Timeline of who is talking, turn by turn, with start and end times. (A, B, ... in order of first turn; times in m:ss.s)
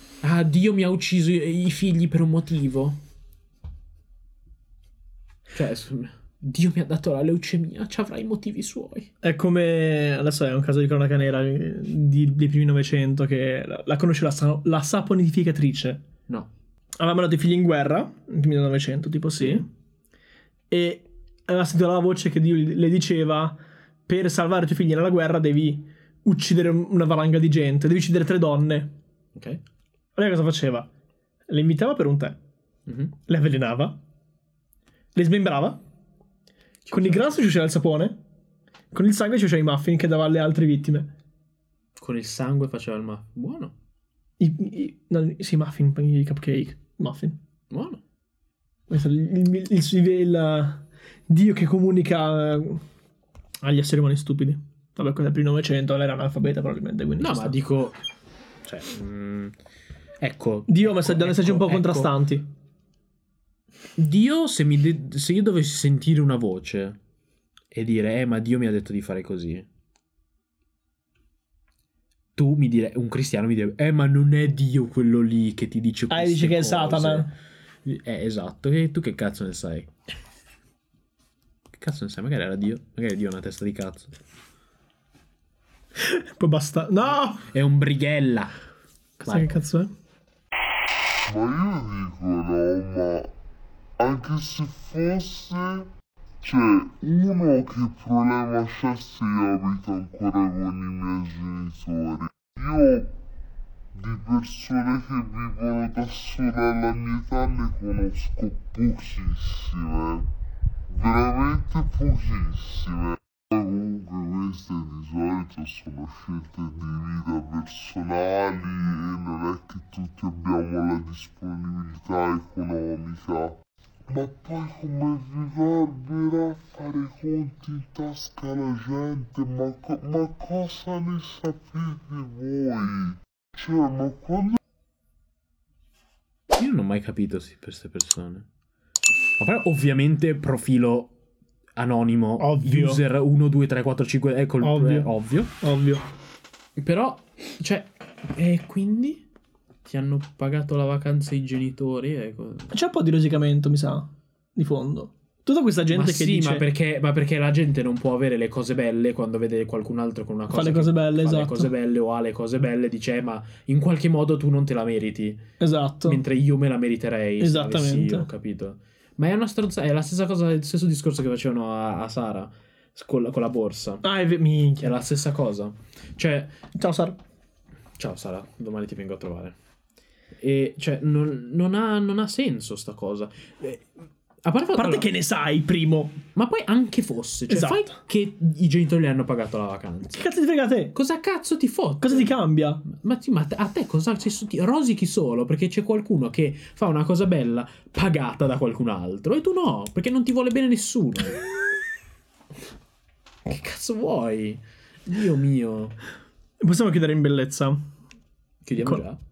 0:00.2-0:03.0 A
0:05.5-0:09.1 A
0:09.2-0:16.0 B
0:17.0-0:19.7 B
0:19.4-0:19.6 A
0:20.7-0:28.9 B
0:29.4-0:29.6 A
0:30.1-0:30.9 B
0:31.5-0:32.4 B
0:32.9-0:33.1 A
0:33.3-0:34.0 B
0:35.1-0:35.8 B
0:36.8-0:37.4 A
0:36.9-0:38.2 B
0:38.9-0:41.1 B
0:42.0-0:43.7 A
0:44.4-0:47.4 B
0:47.7-0:48.0 A
0:48.9-0:52.8 B
0:53.6-0:57.6 B
0:57.2-0:58.0 A
0:58.6-0:59.5 A
1:00.2-1:02.1 A
1:00.7-1:02.4 B
1:04.0-1:07.0 A
1:07.7-1:09.7 A
1:12.4-1:17.3 A
1:16.1-1:17.3 B
1:17.8-1:19.9 A
1:21.7-1:24.1 A
1:26.0-1:27.4 B
1:27.5-1:28.5 A
1:29.2-1:29.5 A
1:29.2-1:29.9 B
1:31.3-1:33.3 C
1:34.0-1:35.9 C
1:36.4-1:43.1 C
1:43.9-1:50.3 C
1:50.9-2:03.6 C
2:04.1-2:14.6 C
2:16.5-2:18.4 A
2:19.4-2:21.1 A
2:21.8-2:25.5 A
2:22.4-2:23.0 B
2:24.6-2:26.0 B
2:26.8-2:29.2 A
2:29.8-2:32.7 A
2:32.7-2:36.7 B
2:35.9-2:45.4 A
2:40.5-2:41.7 B
2:45.6-2:46.2 B
2:46.0-2:54.0 A
2:47.4-2:48.3 B
2:54.0-2:55.0 B
2:54.8-2:56.6 A
2:56.8-2:57.2 B
2:58.0-2:59.5 A
3:00.4-3:03.9 A
3:04.4-3:05.1 A
3:04.7-3:06.2 B
3:06.3-3:10.2 A
3:07.5-3:07.9 B
3:10.1-3:11.0 B
3:10.9-3:21.4 A
3:12.0-3:12.8 B
3:23.4-3:26.0 A
3:26.6-3:27.8 B
3:28.6-3:29.2 A
3:28.8-3:29.0 B